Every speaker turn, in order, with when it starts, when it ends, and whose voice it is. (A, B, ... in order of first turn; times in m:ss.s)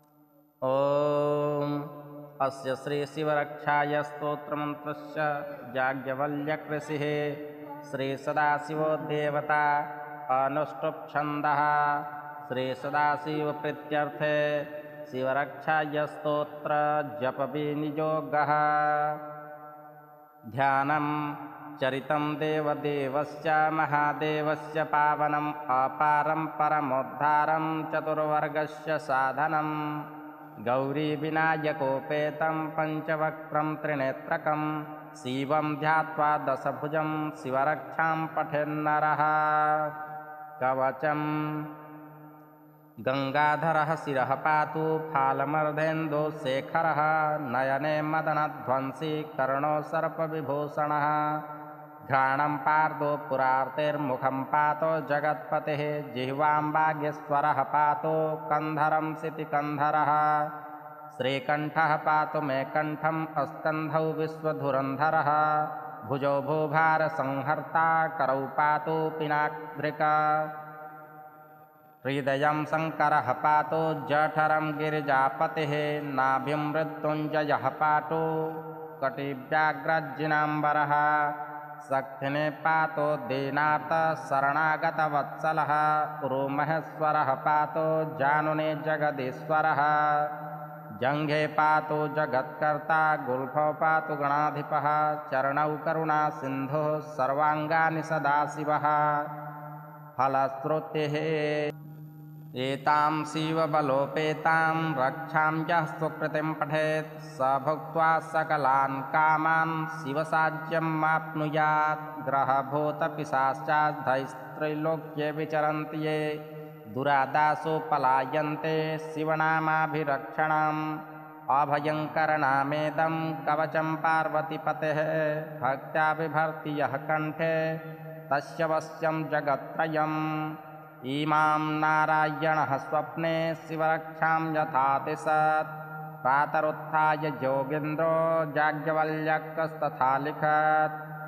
0:00.6-0:01.9 A
0:02.4-0:19.2 A
0:20.5-0:21.1 A
0:21.8-0:30.0 A
0:30.6-0:39.9 A
0:40.6-0:41.7 A
0:43.0-0:51.4 A
0:52.0-1:00.5 A
1:01.1-1:10.5 A
1:12.0-1:21.3 A
1:21.8-1:30.3 A
1:31.0-1:39.3 A
1:40.2-1:41.7 A
1:42.6-1:56.4 A
1:56.9-2:00.8 A
2:01.5-2:15.7 A
2:16.2-2:20.9 A